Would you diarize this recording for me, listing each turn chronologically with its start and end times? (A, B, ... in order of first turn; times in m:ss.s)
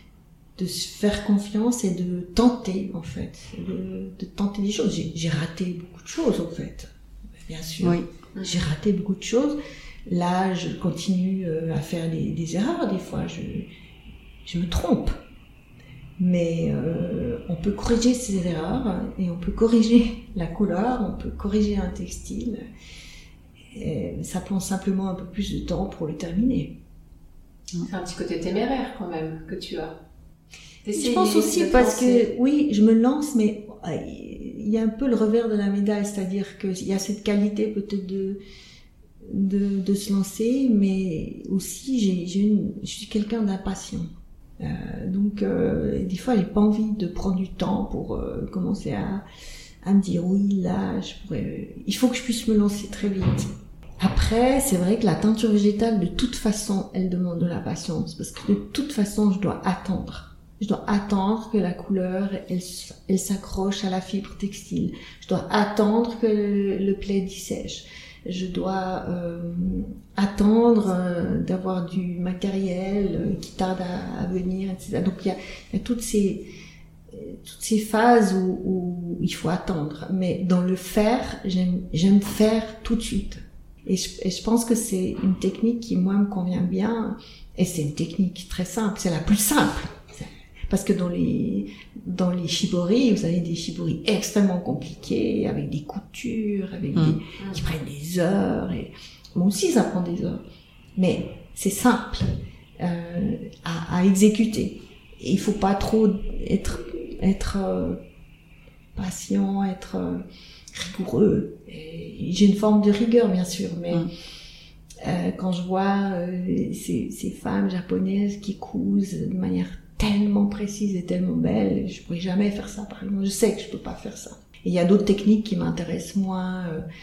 0:00.6-0:06.9 A
0:07.4-0:13.7 A
0:08.3-0:08.6 B
0:14.4-0:15.2 A
0:16.2-0:22.6 A
0:23.7-0:26.7 A
0:27.8-0:30.0 B
0:30.8-0:32.2 B
0:30.9-0:38.4 A
0:39.2-0:49.2 A
0:49.8-1:16.4 A
1:17.1-1:40.4 A
1:37.4-1:37.7 B
1:41.0-1:48.0 A
1:48.9-1:54.1 A
1:55.0-2:06.8 A